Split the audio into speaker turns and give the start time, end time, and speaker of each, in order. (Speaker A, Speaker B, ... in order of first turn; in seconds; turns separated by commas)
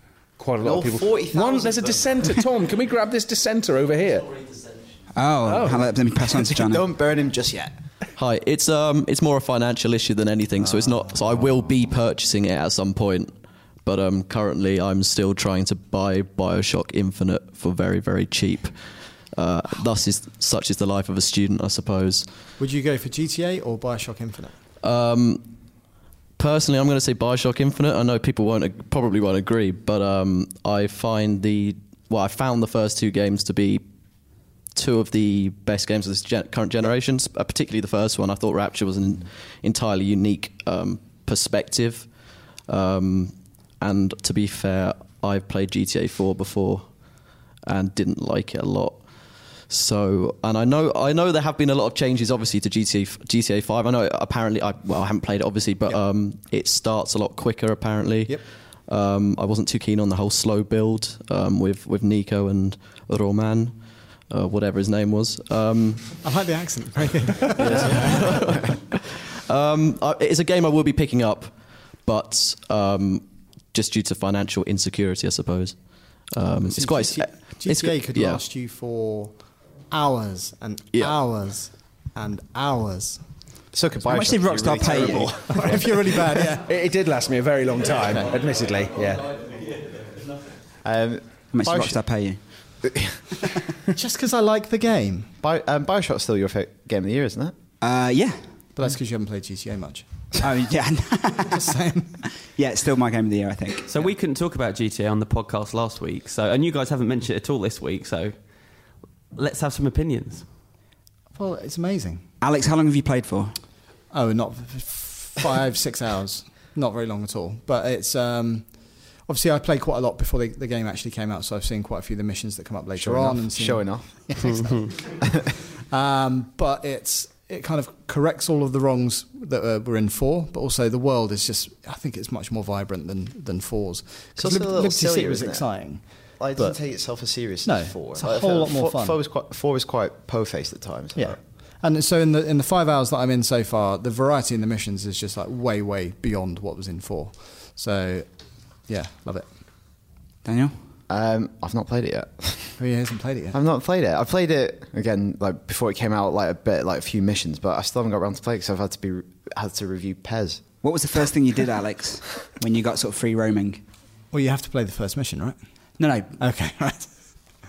Speaker A: 0.4-4.4, Speaker B: 0.6-2.1, Speaker C: 5.1-6.9, Speaker A: 5.5-5.9, Speaker B: 6.5-7.7, Speaker D: 8.2-13.3, Speaker D: 13.8-18.7, Speaker D: 19.3-22.3, Speaker E: 22.6-24.5, Speaker D: 24.8-25.5, Speaker D: 26.4-33.8, Speaker D: 34.8-42.1, Speaker D: 42.7-46.9, Speaker D: 47.6-49.0, Speaker D: 49.6-63.8, Speaker D: 64.3-66.2, Speaker E: 66.2-68.3, Speaker D: 67.6-71.5, Speaker B: 67.7-68.1, Speaker D: 72.0-75.8, Speaker D: 76.3-78.4, Speaker E: 76.7-79.3, Speaker E: 79.9-83.2, Speaker B: 83.7-85.8, Speaker C: 84.0-86.1, Speaker E: 85.5-86.7, Speaker A: 86.7-89.3, Speaker B: 90.8-92.0, Speaker C: 91.5-92.4, Speaker B: 92.8-93.2, Speaker E: 93.9-95.3, Speaker B: 95.4-97.5, Speaker C: 97.8-98.4, Speaker E: 98.8-100.0, Speaker C: 100.4-101.7, Speaker E: 101.4-102.2, Speaker C: 102.4-103.9, Speaker F: 103.9-108.3, Speaker F: 109.4-110.5, Speaker E: 111.3-112.2, Speaker C: 112.4-113.5, Speaker E: 114.1-118.7, Speaker E: 119.2-125.1, Speaker B: 123.0-125.4, Speaker E: 125.9-136.0, Speaker B: 134.4-135.6, Speaker B: 136.4-141.4, Speaker E: 137.6-139.2, Speaker E: 141.1-148.3, Speaker E: 148.9-149.5, Speaker C: 150.4-150.7, Speaker B: 151.1-152.8, Speaker E: 152.8-153.6, Speaker B: 153.5-160.6, Speaker C: 160.8-163.8, Speaker E: 164.3-165.6, Speaker C: 166.0-166.4, Speaker E: 166.4-167.1